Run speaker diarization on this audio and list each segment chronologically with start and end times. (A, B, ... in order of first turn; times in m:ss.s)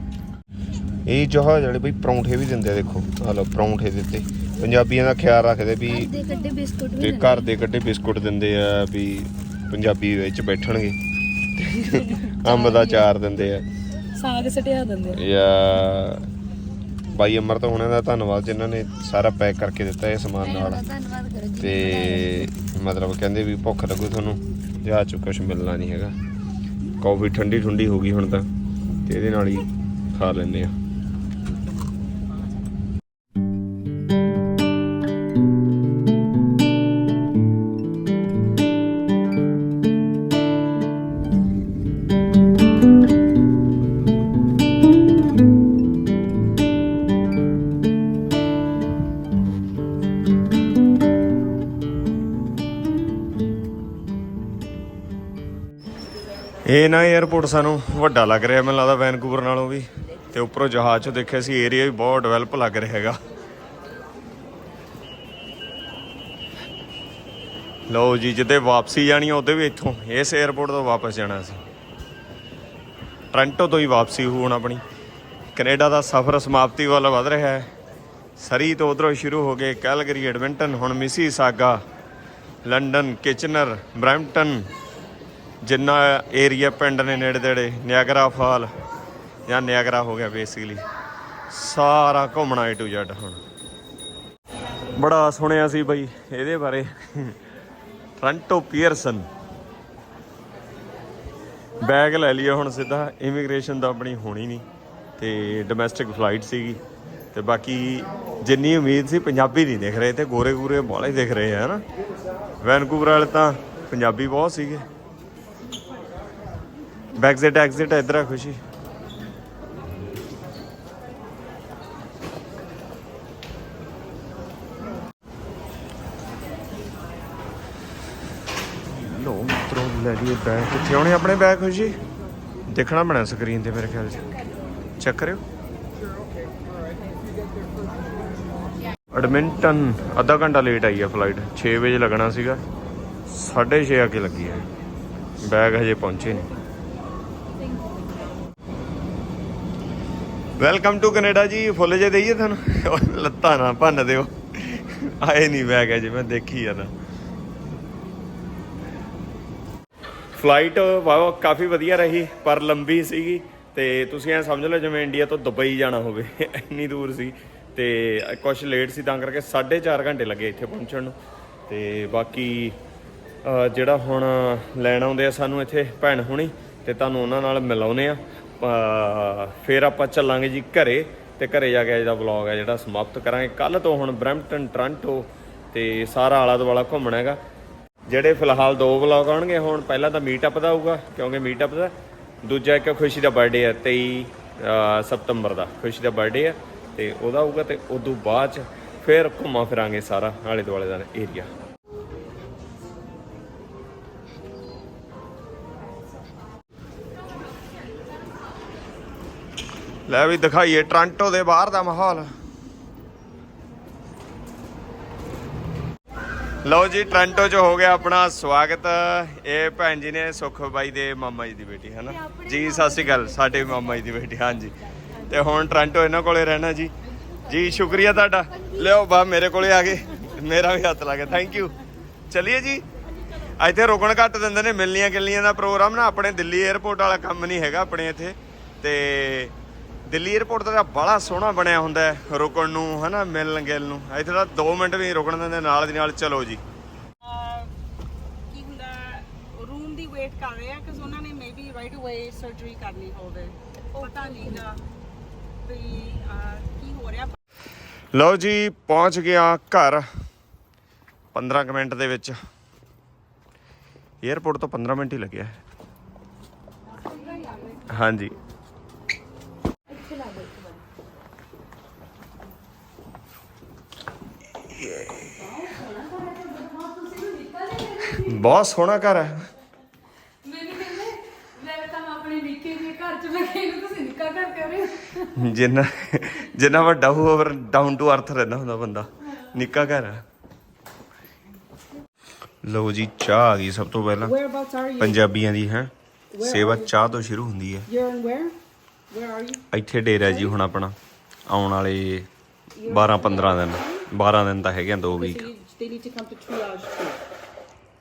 0:01.0-0:06.1 A
0:05.9-0:07.5 B
0:07.0-0:11.0 A
0:11.6-0:13.6 A
0:11.9-0:13.1 B
0:14.1-0:15.2 B
0:15.1-0:16.3 A
0:17.1-0:20.8 A
0:20.4-0:22.5 B
0:21.6-0:26.2 A
0:27.0-0:28.5 A
0:29.0-0:30.7 A
0:56.6-1:03.2 A
1:07.9-1:11.6 A
1:13.3-1:14.8 A
1:15.5-1:17.7 A
1:18.4-1:21.8 A
1:22.6-1:24.7 A
1:25.6-1:28.7 A
1:29.5-1:30.8 A
1:31.5-1:33.4 A
1:34.9-1:37.4 A
1:38.2-1:39.3 A
1:41.8-1:44.6 A
1:45.2-1:46.8 A
1:47.3-1:51.8 A
1:52.6-1:54.9 A
1:57.2-1:58.6 A
2:08.9-2:12.0 A
2:12.7-2:14.3 A
2:15.0-2:15.4 A
2:19.1-2:22.6 A
2:23.3-2:24.7 A
2:25.4-2:26.5 A
2:30.6-2:36.9 A
2:40.3-2:51.2 A
2:51.7-2:52.8 A
2:53.4-3:07.4 A
3:08.1-3:21.5 A
3:30.1-3:32.3 A
3:36.6-3:46.9 A
3:42.1-3:43.9 B
3:45.0-3:45.3 B
3:47.3-3:48.8 B
3:47.4-3:51.8 A
3:52.3-3:52.8 A
3:53.4-3:59.5 A
4:00.1-4:06.6 A
4:07.2-4:07.7 C
4:08.5-4:14.8 C
4:14.0-4:14.6 B
4:15.6-4:17.4 C
4:18.1-4:20.1 A
4:21.3-4:22.4 A
4:24.2-4:25.6 A
4:27.0-4:27.8 B
4:27.9-4:28.4 A
4:29.9-4:30.8 B
4:35.3-4:38.4 B
4:38.1-4:39.5 A
4:40.4-4:45.4 B
4:45.3-4:50.2 A
4:52.6-4:54.3 A
4:54.2-4:55.3 C
4:55.0-4:57.9 A
4:56.3-4:57.0 C
4:57.9-4:58.6 C
4:59.1-4:59.6 C
4:59.7-5:00.9 A
5:00.2-5:00.5 C
5:01.5-5:02.3 A
5:02.8-5:04.1 C
5:02.9-5:05.5 A
5:05.1-5:07.2 C